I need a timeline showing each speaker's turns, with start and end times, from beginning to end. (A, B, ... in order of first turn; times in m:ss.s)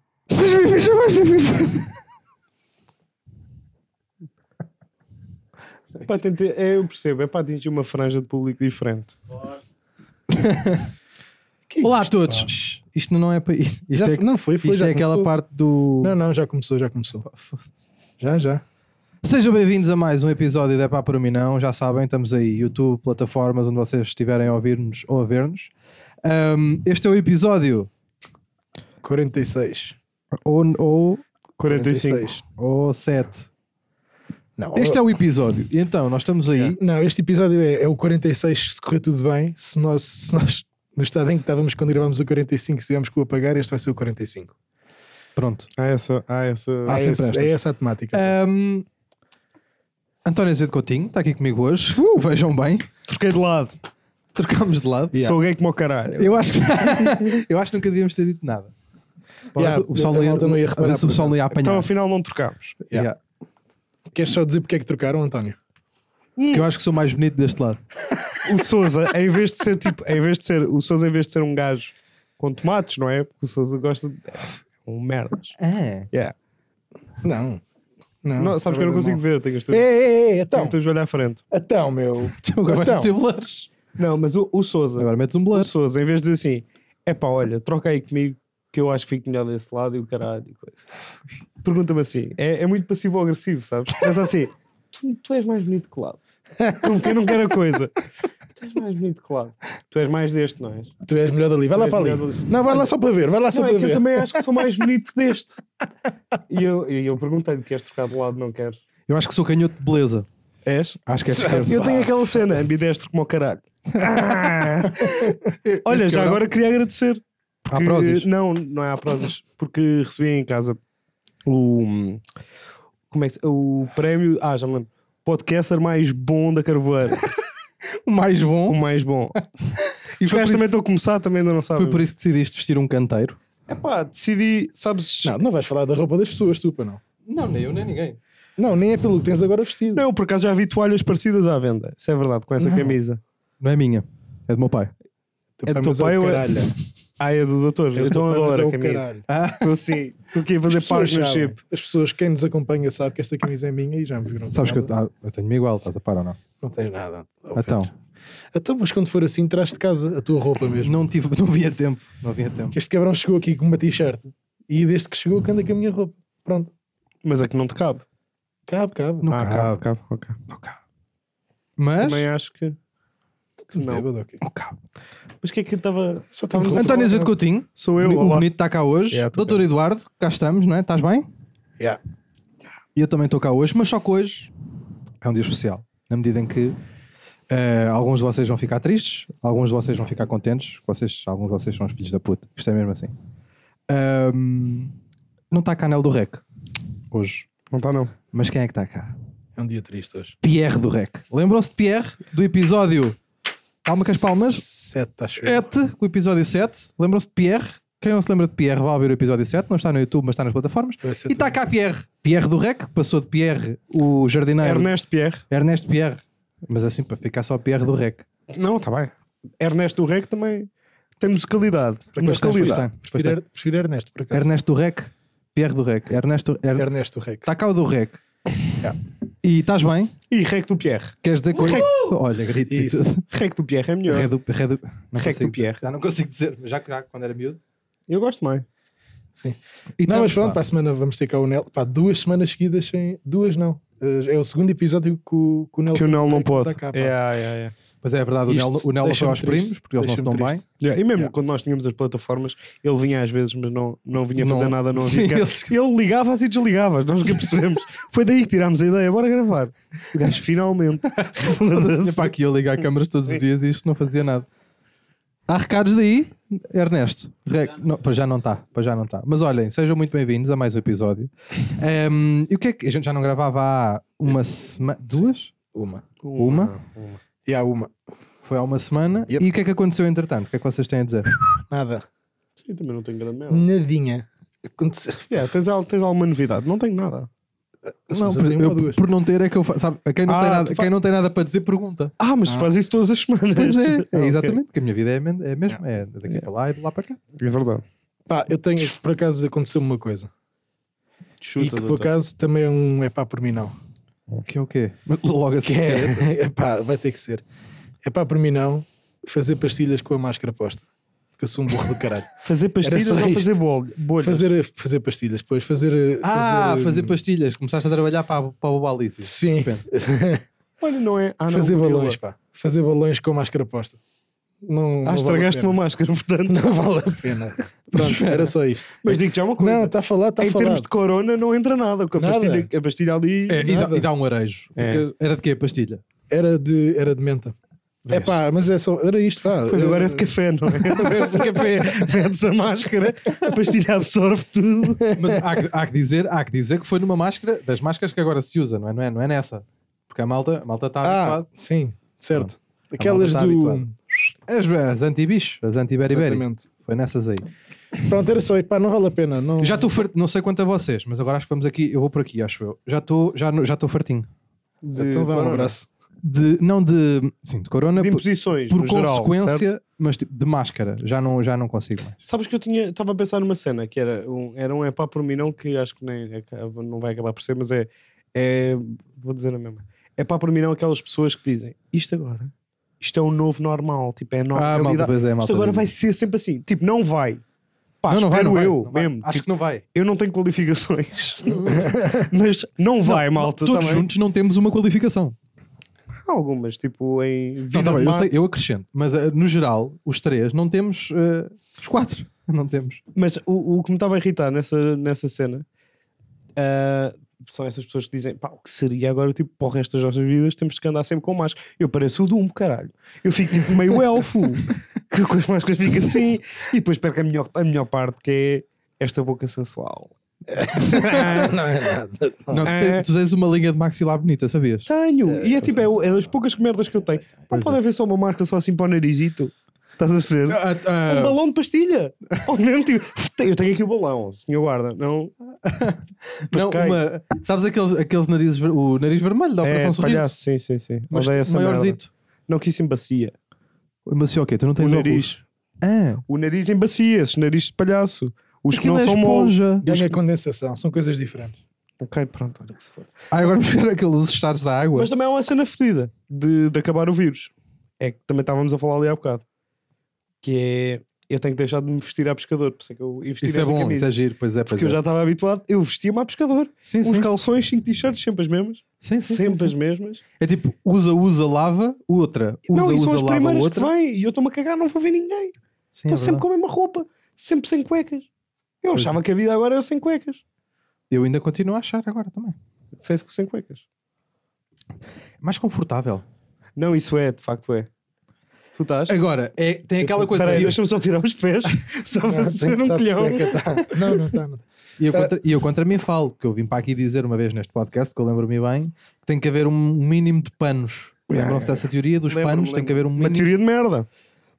0:00.3-0:01.9 A
0:06.0-0:09.2 B
0:10.3-0:10.9 A
0:11.7-0:12.5 C
0:11.8-0:16.2 A
0:13.9-0:15.3 C
0:16.0-0:17.2 C
0:17.3-0:17.8 A
0:18.2-0:18.6 C
0:19.2-0:25.7 A
0:26.2-0:27.9 A
0:29.0-0:30.0 C
0:30.4-0:31.2 A
0:31.6-0:32.4 B
0:31.7-0:32.4 C
0:32.6-0:33.5 A
0:34.6-0:35.0 C
0:34.7-0:36.8 A
0:36.7-0:44.5 C
0:45.4-0:45.7 A
0:45.8-0:47.0 B
0:46.8-0:48.3 C
0:46.9-0:47.5 A
0:48.1-0:48.8 A
0:50.2-0:52.9 A
0:53.0-0:53.7 B
0:54.3-0:55.4 A
0:55.1-0:57.4 B
0:56.1-0:58.7 A
0:59.5-1:01.4 C
0:59.5-1:01.9 A
1:01.5-1:02.8 B
1:02.9-1:03.2 A
1:04.1-1:05.6 C
1:06.4-1:06.6 B
1:06.5-1:07.8 A
1:08.4-1:15.5 B
1:15.6-1:16.1 A
1:17.2-1:17.6 C
1:18.2-1:20.8 C
1:18.4-1:19.8 B
1:20.5-1:21.4 B
1:21.5-1:23.1 C
1:22.4-1:23.7 A
1:24.0-1:30.9 B
1:25.0-1:25.7 A
1:31.6-1:36.2 B
1:36.6-1:37.1 C
1:36.7-1:38.0 B
1:38.6-1:40.9 B
1:41.0-1:44.4 C
1:41.7-1:42.9 B
1:43.5-1:45.6 B
1:46.5-1:48.8 B
1:49.1-1:50.3 A
1:50.6-1:55.2 B
1:51.0-1:52.0 A
1:51.3-1:52.4 C
1:54.9-1:56.5 A
1:55.8-2:00.8 B
1:57.7-1:58.3 A
2:01.4-2:02.2 B
2:03.1-2:07.2 B
2:07.9-2:08.8 A
2:08.7-2:09.4 B
2:09.4-2:10.8 A
2:10.3-2:12.0 B
2:11.7-2:13.4 A
2:13.7-2:15.4 B
2:15.2-2:17.0 C
2:17.2-2:18.2 A
2:18.6-2:20.0 C
2:19.9-2:23.2 B
2:23.6-2:24.9 A
2:25.6-2:26.7 C
2:25.7-2:26.5 B
2:27.2-2:29.0 B
2:27.9-2:29.2 C
2:29.3-2:29.7 A
2:29.6-2:31.6 B
2:30.6-2:34.9 C
2:34.5-2:36.4 A
2:36.6-2:37.9 C
2:37.5-2:37.9 A
2:38.5-2:40.9 C
2:40.8-2:42.7 A
2:42.7-2:46.7 C
2:47.2-2:48.0 B
2:48.7-2:49.6 C
2:49.2-2:49.8 A
2:49.3-2:50.4 B
2:50.5-2:50.8 A
2:51.8-2:52.3 A
2:52.0-2:52.8 B
2:53.7-2:54.4 C
2:53.8-2:54.0 B
2:54.4-2:54.8 A
2:55.4-2:57.1 B
2:56.4-2:57.3 C
2:56.7-3:01.3 A
2:57.7-2:58.5 B
2:59.1-2:59.6 B
3:02.9-3:04.5 A
3:05.2-3:06.8 A
3:07.5-3:13.1 A
3:13.9-3:14.9 A
3:15.5-3:16.4 A
3:17.1-3:17.5 A
3:17.7-3:18.1 B
3:18.3-3:19.1 A
3:19.6-3:20.3 C
3:20.4-3:23.2 A
3:23.8-3:24.6 A
3:24.4-3:25.6 C
3:25.4-3:34.9 A
3:31.0-3:31.5 C
3:34.6-3:35.4 B
3:35.5-3:38.2 A
3:38.5-3:40.7 B
3:41.2-3:43.0 B
3:42.2-3:43.4 A
3:42.2-3:44.5 C
3:44.3-3:46.9 A
3:46.8-3:47.5 C
3:47.4-3:48.2 A
3:49.4-3:50.1 A
3:50.3-3:51.9 B
3:51.2-3:53.2 A
3:52.7-3:53.1 C
3:53.3-3:54.3 B
3:54.1-3:57.6 A
3:55.2-3:55.8 B
3:58.1-3:58.6 B
3:59.4-4:07.1 C
4:00.0-4:00.6 A
4:05.9-4:07.7 B
4:08.0-4:10.6 A
4:08.4-4:10.6 C
4:10.8-4:22.3 B
4:14.4-4:15.7 A
4:21.2-4:24.4 A
4:25.5-4:35.5 A
4:35.7-4:36.0 C
4:36.2-4:37.2 B
4:36.4-4:36.7 A
4:37.4-4:37.9 C
4:38.4-4:41.5 A
4:41.7-4:42.0 C
4:42.6-4:43.7 B
4:43.5-4:45.4 C
4:45.3-4:47.3 B
4:48.0-4:49.0 C
4:48.1-4:52.1 A
4:50.3-4:50.9 B
4:52.2-4:54.6 B
4:52.4-4:52.7 C
4:53.5-4:57.2 A
4:57.4-4:57.8 B
4:58.3-5:00.3 C
5:01.4-5:02.1 B
5:01.6-5:03.7 C
5:04.4-5:06.3 A
5:05.6-5:07.4 C
5:08.0-5:10.8 C
5:11.4-5:13.5 C
5:12.4-5:14.5 B
5:14.2-5:17.1 C
5:16.2-5:19.8 A
5:19.2-5:20.4 C
5:20.8-5:22.2 B
5:21.5-5:24.0 C
5:24.6-5:25.8 C
5:25.0-5:26.7 B
5:26.5-5:30.9 C
5:27.9-5:28.5 A
5:29.0-5:33.6 B
5:32.2-5:32.7 C
5:33.5-5:36.0 A
5:33.5-5:34.1 C
5:34.8-5:35.0 B
5:36.3-5:37.5 C
5:38.1-5:38.3 A
5:38.1-5:40.3 C
5:39.7-5:45.2 B
5:40.8-5:41.9 C
5:45.2-5:51.4 A
5:51.0-5:53.9 C
5:52.3-5:53.8 A
5:54.5-5:57.4 A
5:56.1-5:56.7 C
5:58.0-5:59.9 C
5:59.6-6:04.3 A
6:04.8-6:05.7 B
6:05.0-6:05.9 C
6:06.2-6:12.2 A
6:08.0-6:09.7 B
6:12.2-6:27.4 B
6:24.5-6:25.9 A
6:28.0-6:34.0 B
6:28.1-6:29.8 A
6:33.0-6:35.4 A
6:36.2-6:38.4 B
6:37.7-6:43.0 A
6:43.1-6:45.6 B
6:46.6-7:01.6 B
7:00.5-7:02.6 C
7:02.5-7:04.9 A
7:02.6-7:03.0 B
7:04.8-7:15.3 B
7:05.3-7:05.8 C
7:10.5-7:11.4 A
7:15.6-7:20.3 A
7:16.5-7:17.0 B
7:19.6-7:23.3 B
7:21.1-7:22.1 A
7:24.0-7:26.2 A
7:24.8-7:25.4 B
7:26.3-7:30.1 B
7:28.7-7:30.1 A
7:29.8-7:31.6 C
7:32.0-7:33.1 B
7:33.3-7:35.1 A
7:34.9-7:39.4 B
7:40.4-7:44.1 B
7:43.4-7:45.0 A
7:44.7-7:50.2 B
7:46.8-7:47.3 A
7:49.0-7:49.7 A
7:50.4-7:53.9 A
7:52.7-7:55.5 B
7:55.9-7:56.4 A
7:56.1-7:58.3 B
7:58.8-8:00.4 B
7:58.9-7:59.2 A
8:01.1-8:02.6 A
8:03.0-8:03.8 B
8:05.4-8:06.2 A
8:06.8-8:07.9 B
8:08.7-8:09.2 B
8:09.1-8:10.8 A
8:10.2-8:14.1 B
8:12.2-8:14.6 C
8:15.0-8:23.5 A
8:21.3-8:24.1 B